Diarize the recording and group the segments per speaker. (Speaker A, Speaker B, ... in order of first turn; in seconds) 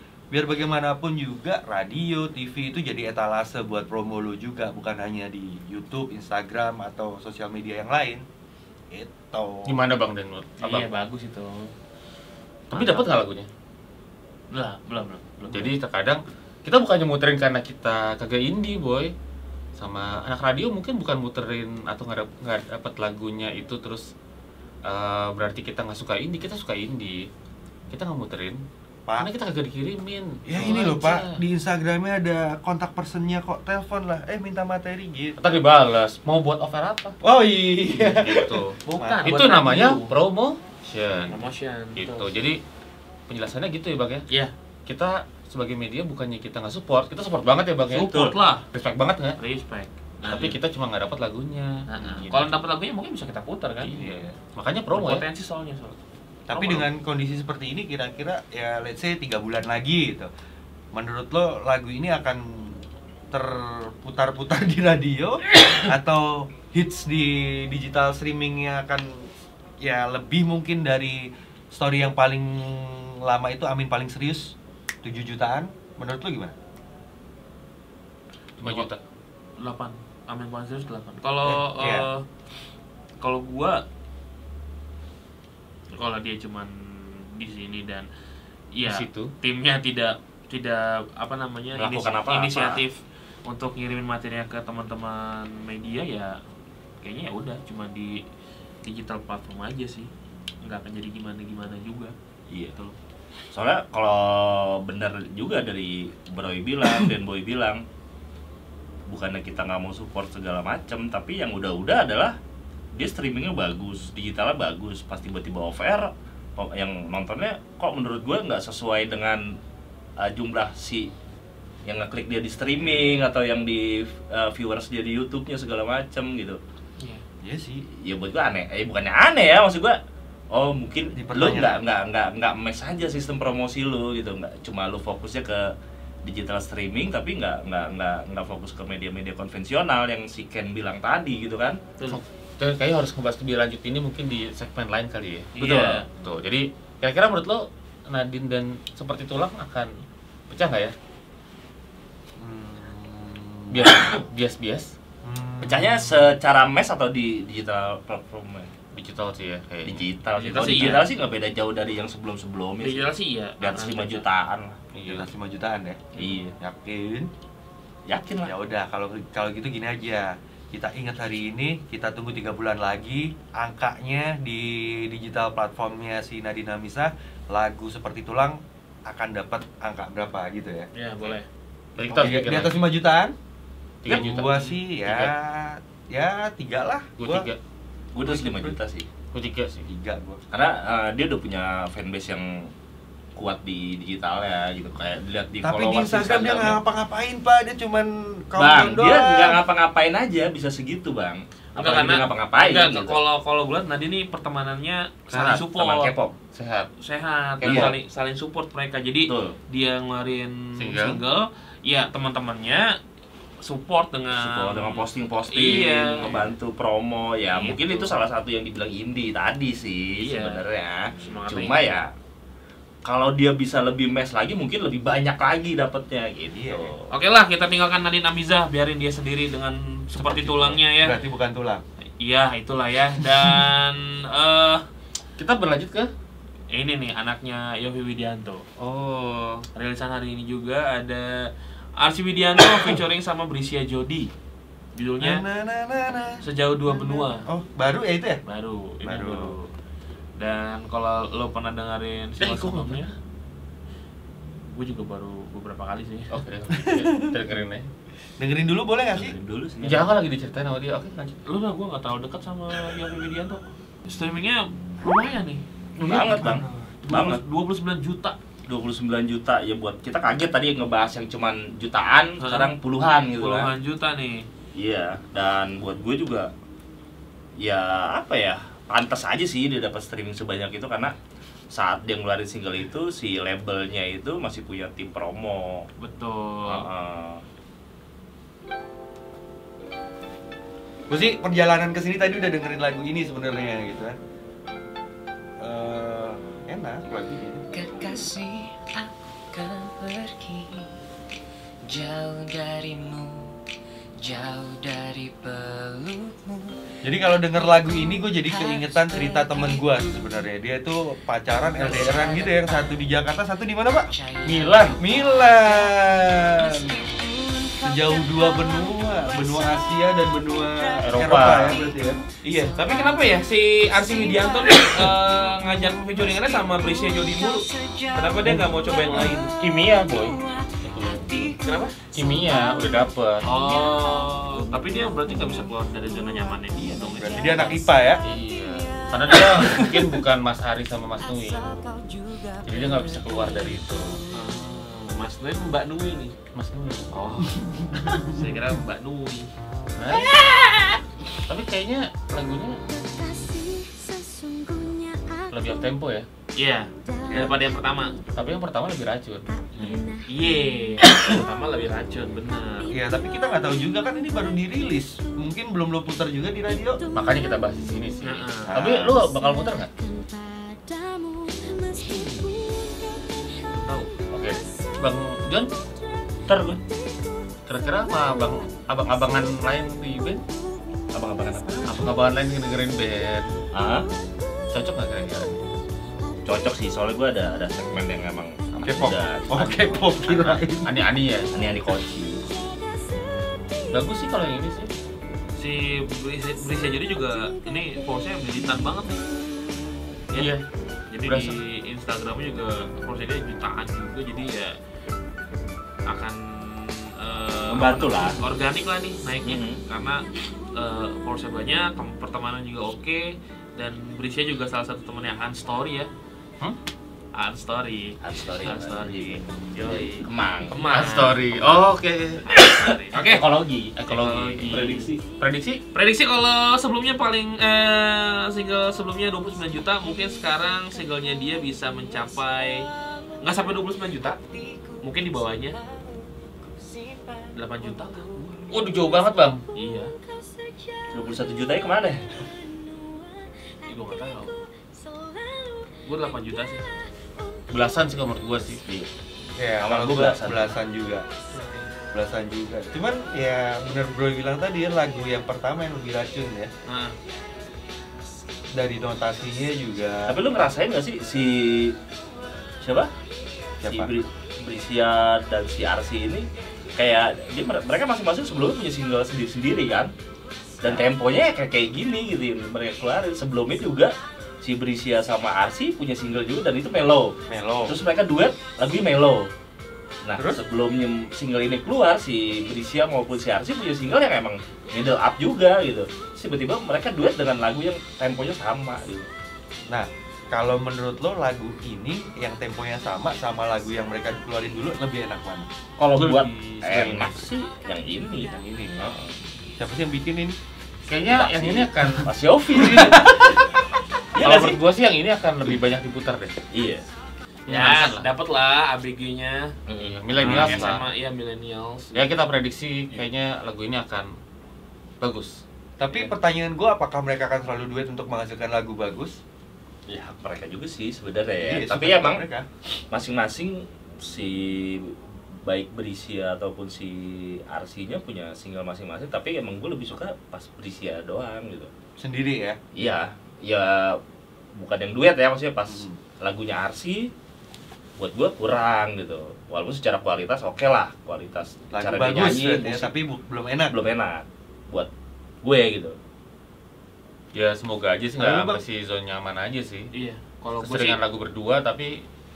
Speaker A: 0.3-8.2, 8.9-9.8, 30.4-35.4, 37.2-39.2, 53.9-54.3, 56.5-60.3, 60.9-69.3, 69.8-76.5, 81.4-82.0, 127.4-127.8, 131.1-131.8, 152.4-154.2, 155.2-156.3, 165.0-167.3, 168.4-180.9, 182.2-183.3, 184.1-187.4, 188.2-188.8, 189.9-190.4, 195.6-199.6, 226.5-226.9, 230.2-231.8, 245.2-248.4, 249.0-249.6, 256.7-257.4, 258.4-259.4, 266.2-266.9, 291.1-294.2, 295.6-297.6, 307.0-314.1, 315.0-316.9, 317.8-322.2, 337.2-338.2, 339.4-340.0, 347.5-348.5, 362.9-367.0, 368.7-369.2, 388.8-390.9, 449.6-451.3, 452.1-456.7, 458.7-460.4, 463.8-464.1, 477.5-477.9, 489.9-495.7, 498.5-499.1, 499.8-500.6, 502.7-503.6, 516.0-519.4, 521.6-522.7, 532.2-532.8, 535.9-536.2, 541.9-543.9, 548.4-548.8
Speaker B: 9.7-10.9, 12.7-13.5, 15.5-19.1, 19.8-24.1, 24.8-27.3, 27.9-28.6, 29.2-31.4, 35.4-37.2, 37.9-41.4, 42.0-42.6, 43.3-44.2, 44.9-48.1, 48.7-49.4, 50.2-52.5, 54.5-55.2, 78.6-79.0, 88.8-89.3, 142.1-149.9, 150.5-150.9, 153.7-154.9, 158.9-161.0, 164.9-165.3, 181.9-182.8, 184.0-185.3, 187.2-187.6, 189.3-189.9, 205.3-205.7, 206.5-206.9, 210.8-211.2, 235.4-236.1, 238.8-239.7, 252.4-253.1, 256.3-257.9, 259.8-261.3, 266.0-266.5, 314.4-315.0, 320.9-321.9, 328.4-331.3, 332.1-333.5, 338.2-341.8, 342.6-344.2, 346.5-347.1, 349.9-350.4, 351.5-352.8, 355.5-356.3, 358.3-360.0, 367.1-369.9, 374.3-375.7, 377.7-380.4, 381.9-383.5, 384.7-385.7, 390.2-391.5, 393.9-394.9, 400.3-400.6, 401.2-401.6, 420.9-422.4, 423.2-425.8, 438.7-439.6, 447.7-448.8, 496.1-497.4, 501.1-502.3, 504.4-506.5, 507.7-508.3, 510.0-511.0, 512.1-514.3, 515.2-515.6, 547.5-550.1, 550.8-552.2
Speaker C: 10.6-11.7, 12.7-13.1, 14.5-15.7, 38.9-40.1, 41.3-42.3, 47.9-48.6, 49.4-50.6, 51.9-54.3, 54.9-56.0, 56.5-56.9, 78.6-78.9, 79.6-82.2, 83.2-83.8, 85.9-88.1, 88.7-96.4, 97.0-98.2, 98.8-100.1, 100.6-102.1, 145.6-146.1, 160.4-161.1, 162.8-164.2, 166.2-166.4, 180.9-181.5, 201.7-206.1, 207.0-213.0, 213.6-216.5, 217.5-218.2, 220.2-222.0, 227.1-231.2, 232.2-234.8, 236.7-238.6, 239.7-244.3, 244.9-245.4, 246.4-247.5, 248.4-249.7, 250.4-253.1, 254.7-256.3, 261.4-265.6, 267.0-268.4, 272.4-272.7, 273.3-274.5, 286.0-286.9, 322.4-329.5, 331.6-332.0, 333.4-337.8, 344.3-346.3, 347.1-349.5, 350.4-350.9, 356.6-358.1, 360.3-362.9, 368.2-368.9, 373.7-374.1, 395.6-399.2, 401.1-404.8, 406.1-416.1, 417.3-421.5, 422.4-423.4, 424.1-425.1, 425.9-432.9, 433.4-434.4, 435.0-435.8, 437.5-438.6, 439.7-440.1, 443.9-444.5, 446.0-446.8, 451.5-451.9, 456.9-457.1, 507.7-509.8, 510.4-512.3, 550.1-551.2
Speaker D: 48.0-48.3, 91.7-92.8, 102.5-102.8, 103.5-107.8, 109.1-112.4, 112.9-119.6, 120.2-121.1, 121.8-126.6, 128.0-130.0, 130.5-141.8, 145.6-146.0, 155.6-158.7, 159.8-163.1, 163.6-164.8, 166.2-166.5, 168.1-168.5, 182.1-182.7, 188.1-189.1, 190.5-192.7, 193.3-196.8, 198.6-203.2, 205.7-206.3, 207.6-207.9, 209.3-209.6, 214.3-222.1, 223.0-227.1, 259.1-260.1, 266.0-267.4, 268.7-273.7, 274.7-276.5, 277.6-281.1, 281.7-285.9, 286.6-287.4, 376.5-376.8, 381.1-382.1, 383.7-384.1, 386.4-390.6, 391.5-392.6, 407.7-408.4, 409.4-409.8, 418.2-420.9, 422.6-423.9, 424.7-425.2, 441.1-442.3, 449.8-450.8, 460.3-462.0, 462.8-463.1, 463.8-470.1, 470.8-477.3, 477.9-479.5, 480.2-489.3, 496.0-499.3, 501.3-503.6, 504.3-504.8, 506.7-507.0, 509.9-511.0, 520.1-522.4, 523.1-531.9, 532.9-534.2, 534.7-537.3, 538.2-543.1, 543.9-545.1, 545.6-546.1
Speaker E: 297.7-300.9, 301.9-303.6, 304.2-306.8, 307.6-310.3, 311.6-313.1, 314.1-340.2, 341.1-344.5, 350.1-350.7, 352.5-356.0, 356.9-358.4, 359.5-361.4, 362.7-363.1, 366.7-367.8, 368.9-382.1, 392.5-394.0, 396.5-399.9, 429.0-448.9, 497.8-499.1